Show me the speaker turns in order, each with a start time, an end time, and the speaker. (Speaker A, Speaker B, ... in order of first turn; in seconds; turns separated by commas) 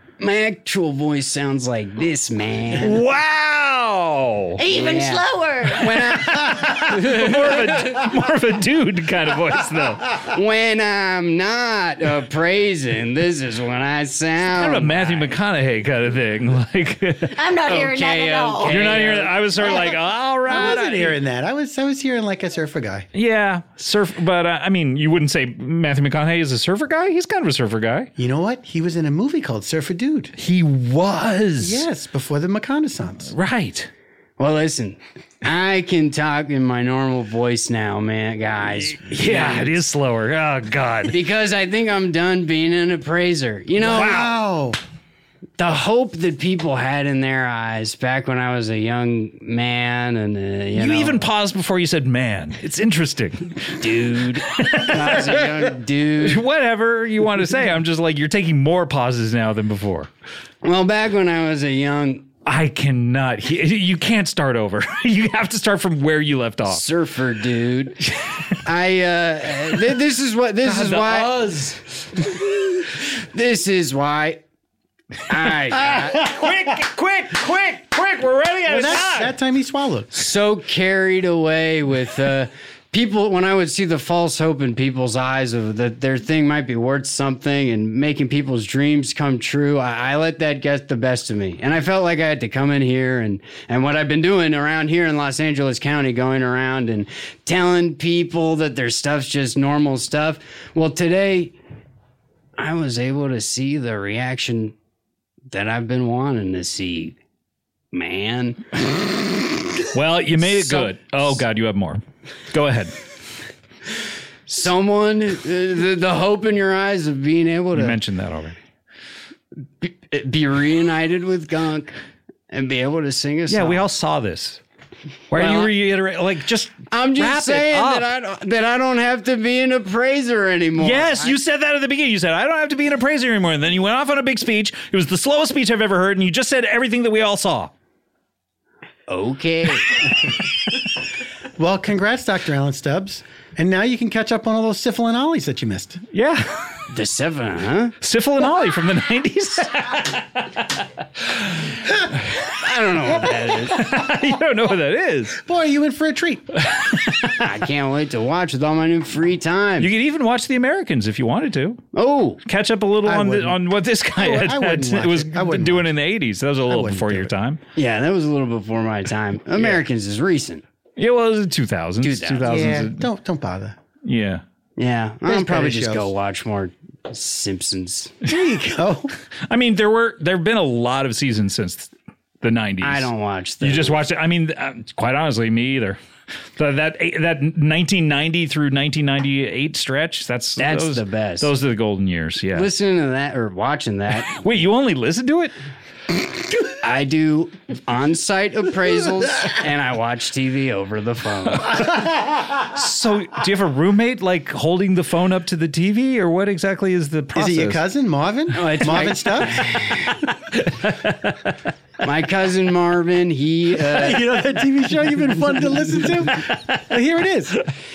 Speaker A: 0.2-3.0, Speaker B: 2.8-4.6, Speaker C: 4.6-5.9, Speaker A: 4.7-8.0, Speaker B: 5.7-10.2, Speaker A: 10.3-15.3, Speaker B: 14.5-17.4, Speaker C: 17.3-19.0, Speaker A: 17.6-19.9, Speaker B: 18.6-21.2, Speaker D: 20.4-23.1, Speaker B: 23.1-28.1, Speaker D: 28.2-30.3, Speaker B: 30.4-31.9, Speaker D: 31.6-33.3, Speaker B: 33.3-33.9, Speaker A: 34.4-39.8, Speaker B: 38.8-41.2, Speaker A: 41.1-44.1, Speaker D: 43.8-44.8, Speaker B: 43.8-44.3, Speaker A: 45.6-51.3, Speaker B: 50.8-60.1, Speaker A: 53.8-56.4, Speaker A: 60.6-62.3, Speaker B: 62.4-66.8, Speaker A: 66.7-68.0, Speaker A: 68.6-71.7, Speaker B: 70.6-71.8, Speaker A: 72.2-74.4, Speaker A: 75.3-76.4, Speaker B: 75.7-79.3, Speaker D: 78.7-80.1, Speaker A: 80.1-101.5, Speaker A: 102.6-104.7, Speaker A: 105.5-107.2, Speaker A: 107.9-108.9, Speaker B: 109.9-112.9, Speaker A: 110.5-110.9, Speaker A: 114.5-118.0, Speaker B: 117.7-118.5, Speaker A: 119.8-121.9, Speaker A: 122.5-123.8, Speaker B: 123.5-124.6, Speaker B: 125.3-128.1, Speaker A: 125.3-125.7, Speaker A: 126.9-131.3, Speaker B: 130.8-137.7, Speaker A: 139.1-140.1, Speaker D: 141.6-146.0, Speaker B: 146.1-146.6, Speaker A: 146.9-147.9, Speaker B: 148.0-151.7, Speaker A: 152.5-153.9, Speaker B: 153.5-155.4, Speaker D: 155.4-156.5, Speaker B: 156.6-157.4, Speaker A: 157.4-159.9, Speaker B: 159.8-161.8, Speaker A: 161.9-162.4, Speaker B: 162.4-167.6, Speaker D: 163.0-163.6, Speaker D: 164.1-165.9, Speaker D: 166.7-167.3, Speaker A: 167.8-170.6, Speaker B: 171.0-173.1, Speaker A: 172.0-172.7, Speaker D: 172.4-173.8, Speaker B: 174.0-174.4, Speaker A: 174.8-178.1, Speaker D: 175.3-176.1, Speaker D: 178.2-179.1, Speaker B: 179.5-183.1, Speaker A: 182.8-184.0, Speaker B: 183.6-186.0, Speaker B: 186.6-192.7, Speaker A: 190.6-191.5, Speaker A: 192.5-194.4, Speaker B: 194.2-195.5, Speaker A: 196.6-201.8, Speaker B: 201.7-207.8, Speaker D: 207.3-209.7, Speaker A: 208.5-210.3, Speaker B: 210.5-211.5, Speaker A: 212.0-214.3, Speaker D: 213.9-217.6